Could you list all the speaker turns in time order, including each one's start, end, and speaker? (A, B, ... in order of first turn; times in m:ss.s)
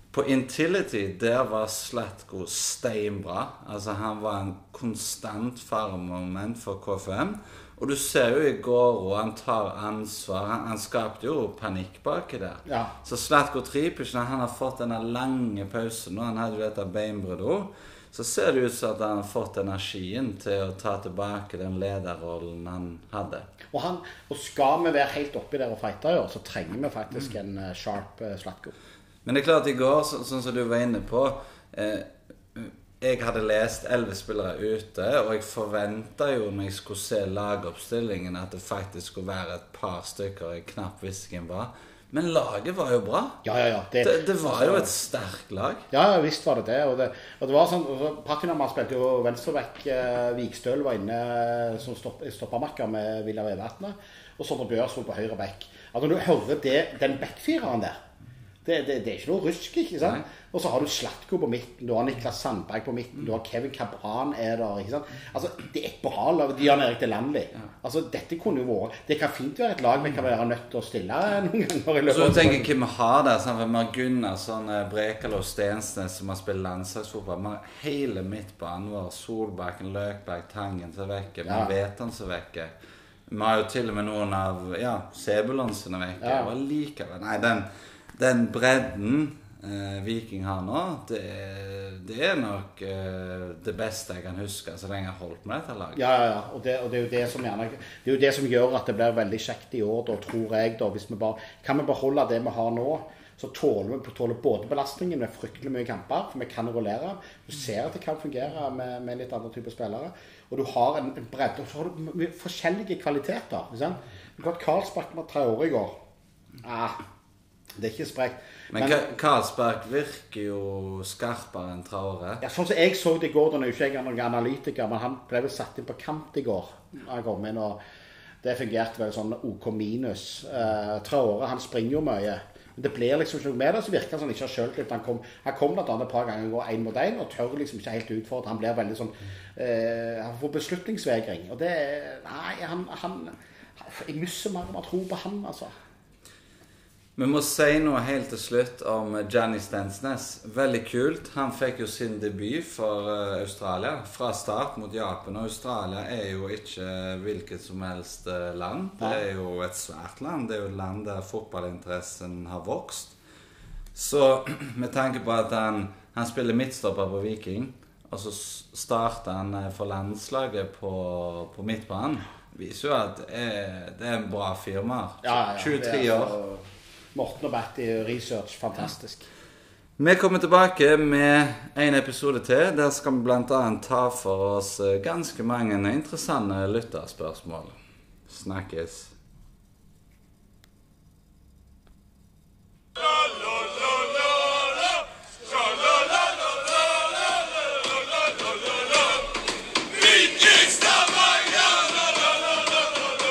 0:00.1-0:23.5 A
0:12.7-0:12.9 B
0:23.7-0:28.7 B
0:29.2-0:43.4 A
0:43.4-0:44.9 B
0:44.0-0:45.9 A
0:45.9-0:58.0 B
0:58.6-1:12.7 B
1:12.1-1:22.7 A
1:21.4-1:21.7 B
1:23.3-1:36.0 A
1:26.2-1:26.5 B
1:36.0-1:55.9 B
1:56.6-1:57.0 B
1:57.8-1:59.0 B
1:58.7-2:02.4 A
2:02.4-2:07.8 B
2:08.4-2:25.7 B
2:27.2-2:43.2 A
2:43.9-2:56.3 A
2:55.2-2:56.6 B
2:57.1-2:59.3 B
3:00.0-3:09.1 A
3:20.0-3:22.1 A